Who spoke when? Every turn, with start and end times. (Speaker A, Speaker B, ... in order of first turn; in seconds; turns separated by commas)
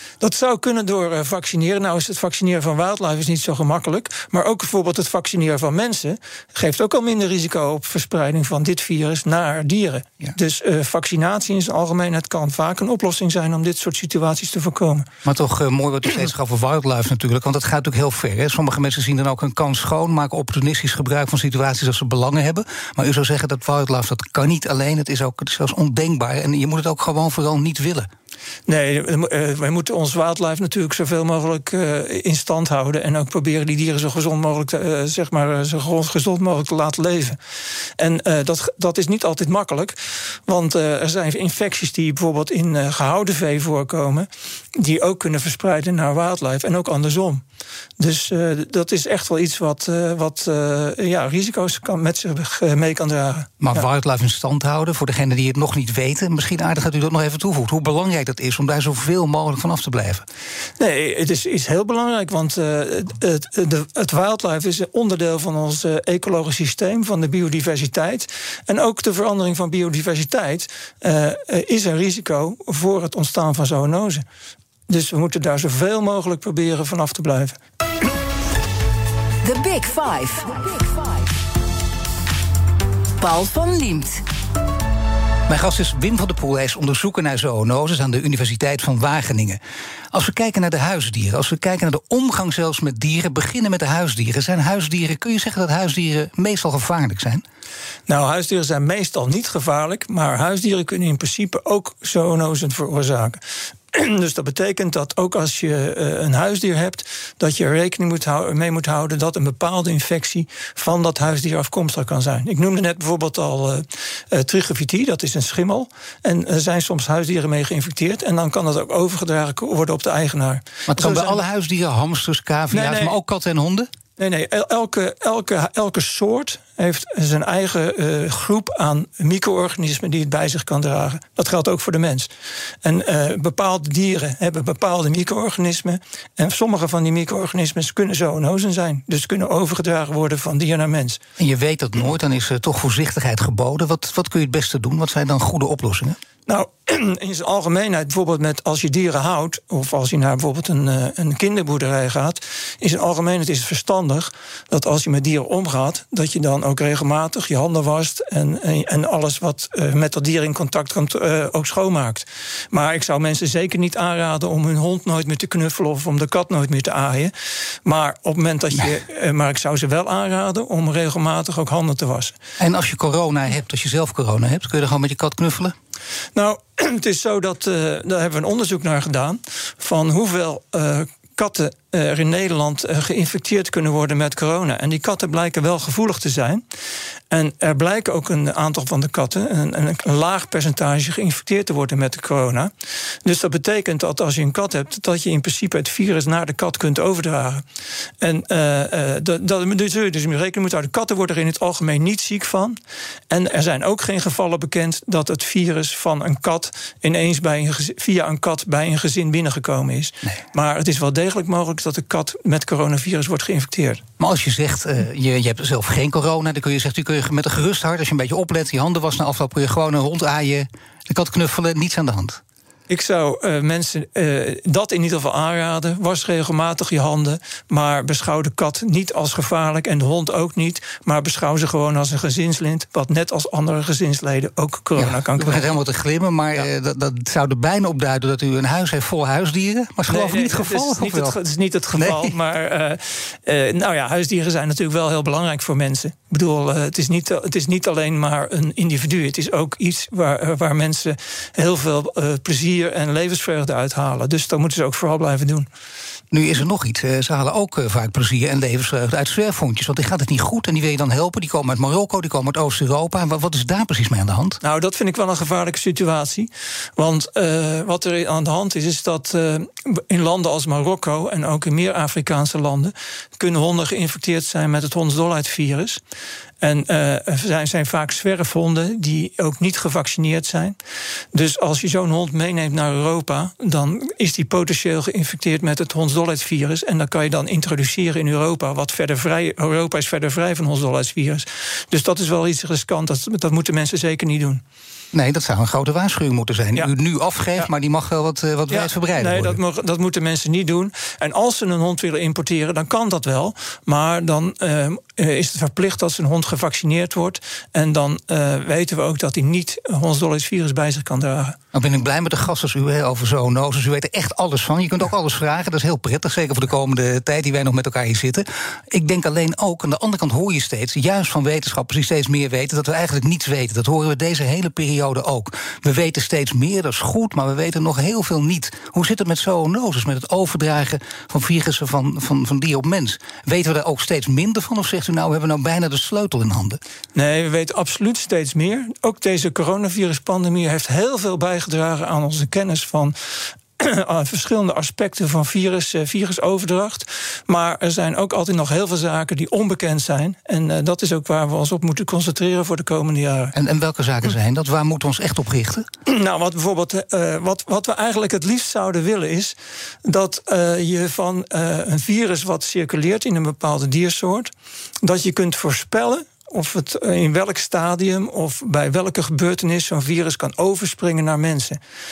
Speaker A: 0.2-15.1, Speaker B: 15.2-28.1, Speaker A: 28.7-37.4, Speaker A: 38.0-47.4, Speaker A: 48.0-53.8, Speaker B: 53.6-60.2, Speaker A: 60.8-74.2, Speaker A: 74.9-77.6, Speaker C: 79.4-81.5, Speaker C: 83.2-84.2, Speaker B: 85.5-89.6, Speaker B: 90.1-97.4, Speaker A: 98.1-103.4, Speaker A: 103.9-121.4, Speaker B: 120.9-123.9, Speaker A: 122.7-123.2, Speaker A: 124.2-132.3, Speaker A: 132.8-141.2, Speaker B: 141.4-146.2, Speaker A: 146.5-167.3, Speaker A: 167.8-172.3, Speaker B: 172.6-175.8, Speaker A: 176.3-186.6, Speaker A: 187.3-192.7, Speaker A: 193.2-197.6, Speaker A: 198.2-202.8, Speaker A: 203.3-214.0, Speaker B: 214.2-222.4, Speaker A: 222.9-235.7, Speaker B: 235.0-241.4, Speaker A: 240.1-255.7, Speaker B: 242.0-242.4, Speaker B: 256.3-264.6, Speaker A: 264.6-276.0, Speaker A: 276.6-280.8, Speaker A: 281.3-294.6, Speaker B: 295.1-299.6, Speaker A: 298.7-311.6, Speaker B: 311.7-336.8, Speaker A: 337.1-353.5, Speaker B: 353.5-355.9, Speaker A: 356.1-364.5, Speaker A: 365.0-371.8